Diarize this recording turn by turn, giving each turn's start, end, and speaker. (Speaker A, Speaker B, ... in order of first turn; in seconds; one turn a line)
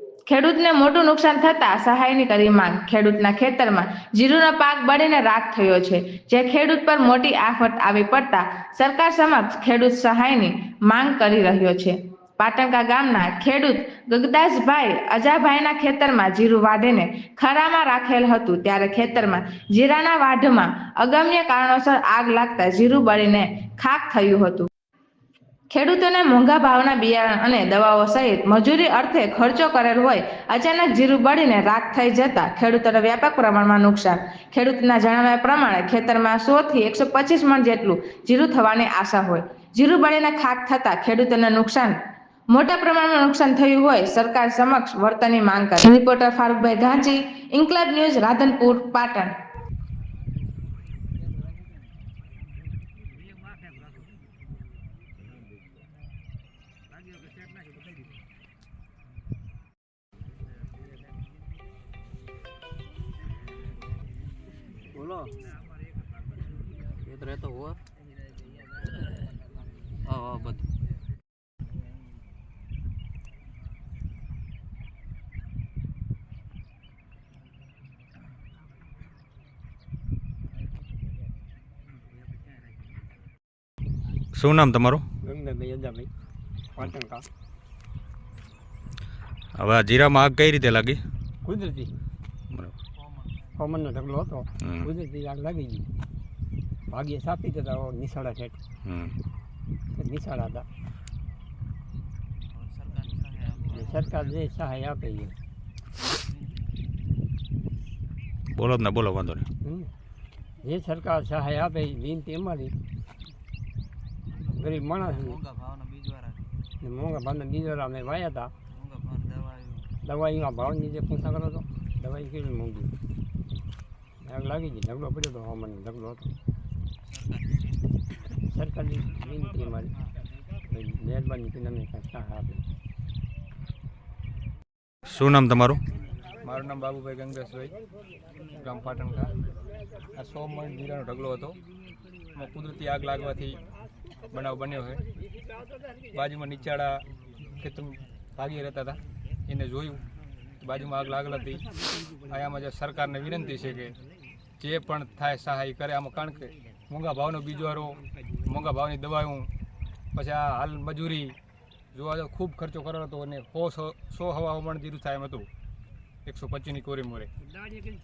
Speaker A: 0.3-24.7
Speaker A: 25.7-42.0
Speaker A: 42.5-49.3
Speaker B: 67.0-67.8
Speaker B: 70.0-70.6
Speaker C: 84.3-85.0
Speaker D: 85.2-86.1
Speaker D: 86.7-87.2
Speaker C: 89.5-91.0
Speaker D: 91.4-91.9
Speaker B: 92.9-93.7
Speaker D: 93.6-95.9
Speaker C: 94.6-94.9
Speaker D: 96.9-98.6
Speaker C: 98.8-99.2
Speaker D: 99.9-100.7
Speaker B: 102.5-104.4
Speaker D: 103.7-105.3
Speaker C: 108.5-109.5
Speaker D: 109.6-109.9
Speaker D: 110.6-112.7
Speaker B: 114.4-116.5
Speaker D: 114.5-115.4
Speaker D: 116.8-118.5
Speaker B: 118.7-119.9
Speaker D: 120.0-122.9
Speaker D: 124.2-126.3
Speaker B: 127.0-127.9
Speaker D: 128.4-129.9
Speaker D: 130.7-132.6
Speaker C: 135.1-135.8
Speaker E: 136.4-137.8
Speaker E: 138.6-139.4
Speaker E: 140.1-141.6
Speaker E: 142.3-143.6
Speaker E: 144.3-145.0
Speaker E: 146.1-147.0
Speaker C: 146.2-146.8
Speaker E: 147.6-150.0
Speaker E: 150.6-151.7
Speaker C: 151.3-151.7
Speaker E: 152.3-153.9
Speaker C: 152.3-152.7
Speaker E: 154.6-159.5
Speaker E: 160.1-161.3
Speaker E: 161.9-165.5
Speaker E: 166.2-167.3